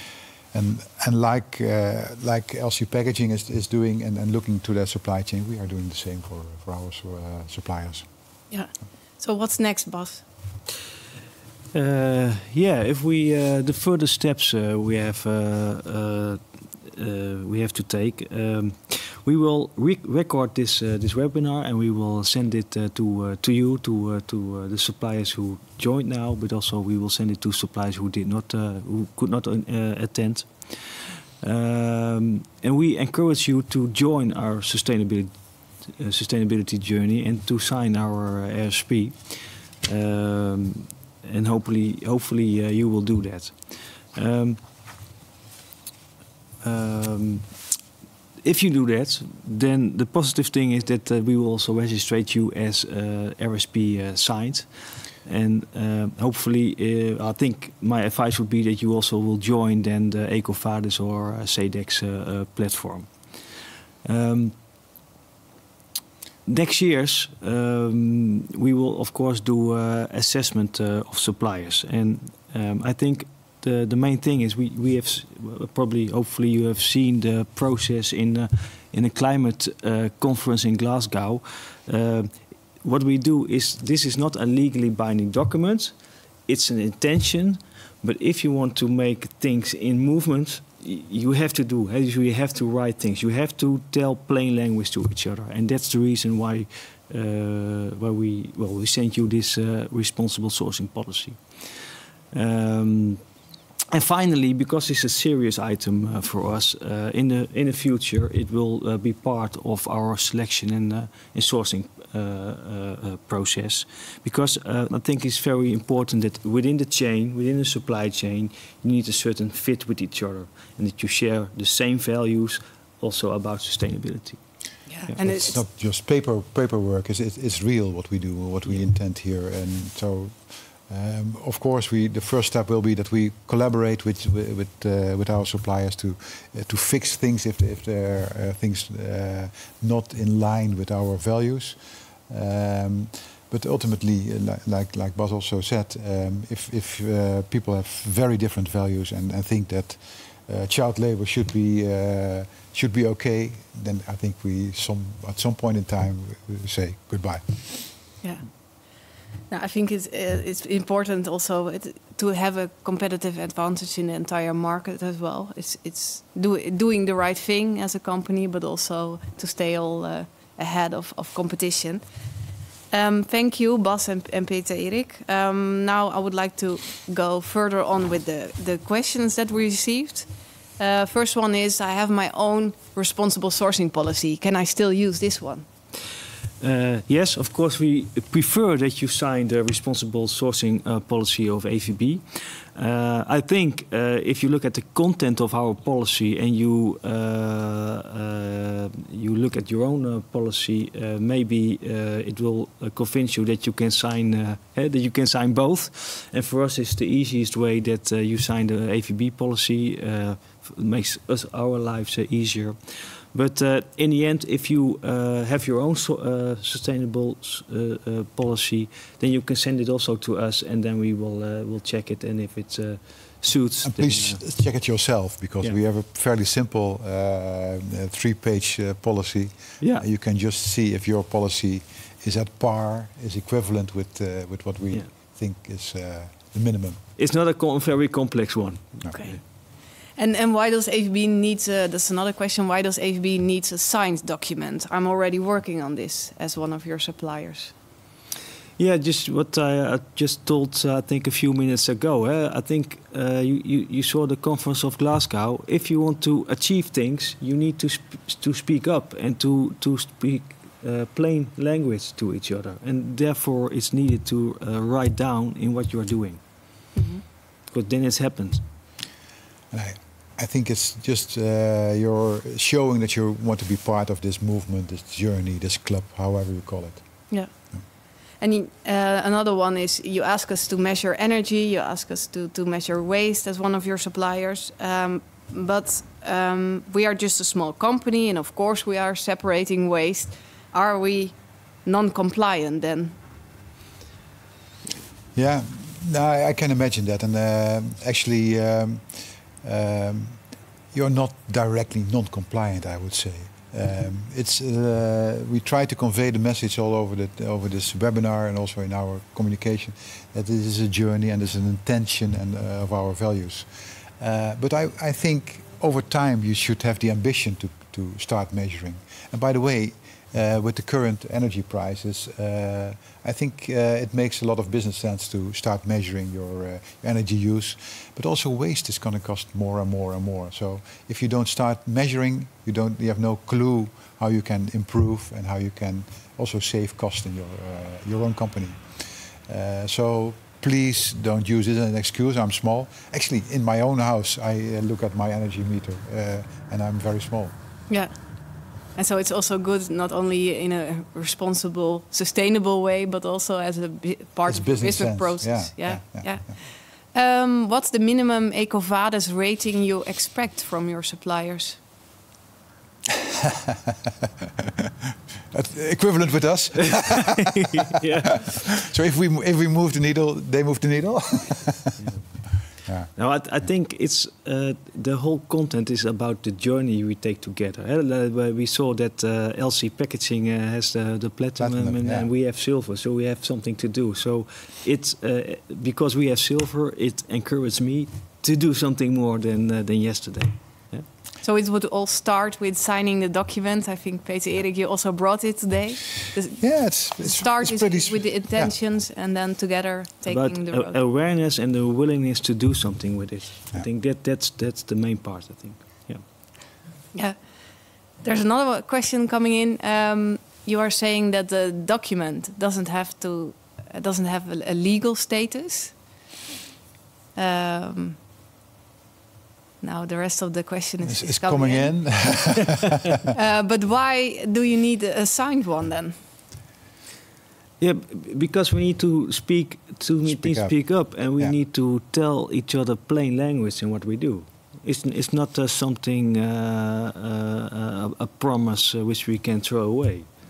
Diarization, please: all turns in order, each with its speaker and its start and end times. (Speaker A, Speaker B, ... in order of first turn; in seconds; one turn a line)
Speaker A: 0.5-8.0
Speaker B: 8.5-10.2
Speaker C: 11.7-35.3
Speaker C: 35.9-44.6
Speaker C: 46.6-47.5
Speaker C: 48.4-63.4
Speaker C: 64.0-64.5
Speaker C: 66.5-85.9
Speaker C: 86.5-103.2
Speaker C: 103.9-124.4
Speaker B: 124.9-125.6
Speaker A: 125.2-141.8
Speaker A: 142.3-157.4
Speaker B: 159.5-172.0
Speaker B: 172.9-180.3
Speaker B: 180.8-185.7
Speaker C: 186.6-192.2
Speaker C: 192.7-224.4
Speaker A: 223.8-237.0
Speaker C: 229.8-230.1
Speaker C: 237.2-239.4
Speaker B: 239.1-239.4
Speaker B: 240.2-247.7
Speaker C: 248.8-266.4
Speaker B: 266.9-267.2
Speaker C: 267.7-268.6
Speaker A: 269.7-277.1
Speaker B: 278.4-293.1
Speaker A: 295.3-300.4
Speaker A: 300.9-347.5
Speaker B: 347.9-348.2
Speaker B: 348.9-361.8
Speaker A: 354.4-356.5
Speaker A: 363.4-363.9
Speaker A: 365.5-367.5
Speaker C: 366.9-368.8
Speaker A: 368.7-371.9
Speaker C: 372.0-372.6
Speaker C: 373.1-391.1
Speaker A: 381.6-382.3
Speaker B: 391.4-401.0
Speaker A: 396.6-398.7
Speaker C: 400.3-406.2
Speaker B: 407.1-407.4
Speaker B: 408.2-415.9
Speaker B: 417.3-418.2
Speaker B: 419.8-422.4
Speaker A: 421.1-422.9
Speaker B: 423.3-426.1
Speaker C: 427.8-440.3
Speaker A: 430.2-431.5